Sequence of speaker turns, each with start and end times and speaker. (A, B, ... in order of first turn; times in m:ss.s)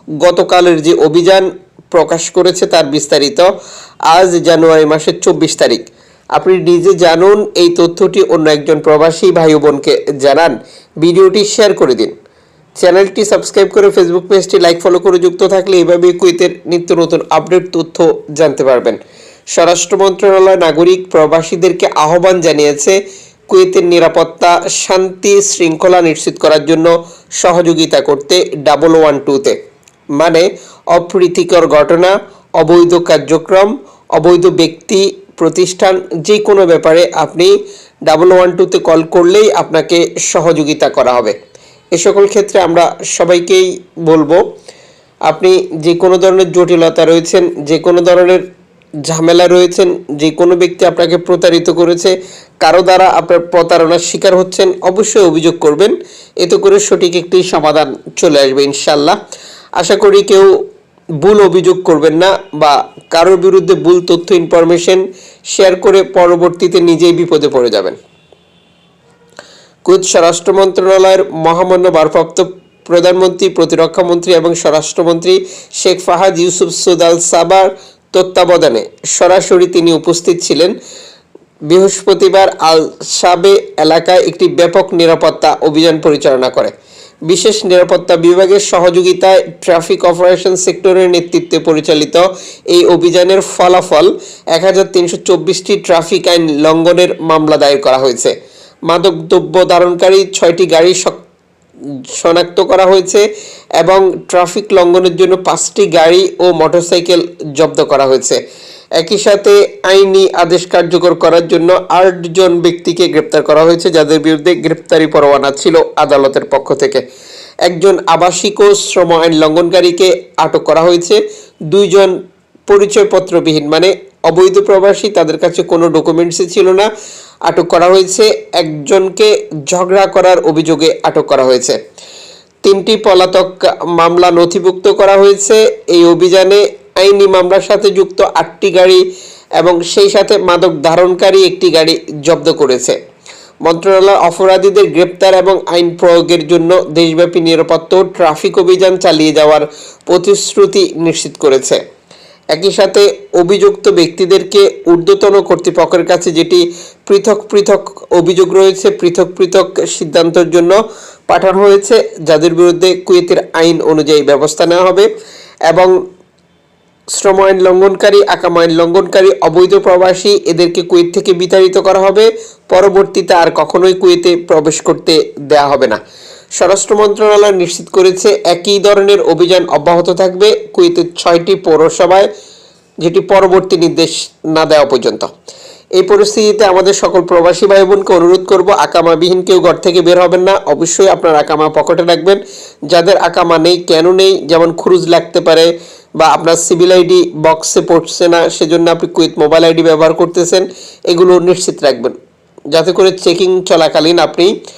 0:00.2-0:03.5 A
0:04.1-0:12.1 A
0:12.8-0:19.0 A
0:19.5-0:29.6 A
0:30.2-0:37.6 A
0:38.1-0:41.4 A
0:41.9-0:44.4 A
0:45.3-0:48.5 A
0:49.0-0:59.2 A
0:59.8-1:00.5 A
1:01.2-1:08.0 A
1:09.8-1:20.8 A
1:21.7-1:26.7 A
1:27.3-1:38.3 A
1:38.9-1:41.2 A
1:42.1-1:43.3 A
1:43.8-1:48.4 A
1:49.0-1:57.0 A
1:57.7-2:06.9 A
2:07.5-2:11.8 A
2:12.6-2:19.0 A
2:19.6-2:23.0 A
2:23.6-2:31.8 A
2:32.5-2:40.8 A
2:41.3-2:45.1 A
2:45.7-2:46.0 A
2:47.1-2:56.0 A
2:56.6-3:02.3 A
3:03.0-3:05.3 A
3:06.0-3:22.2 A
3:22.7-3:24.5 A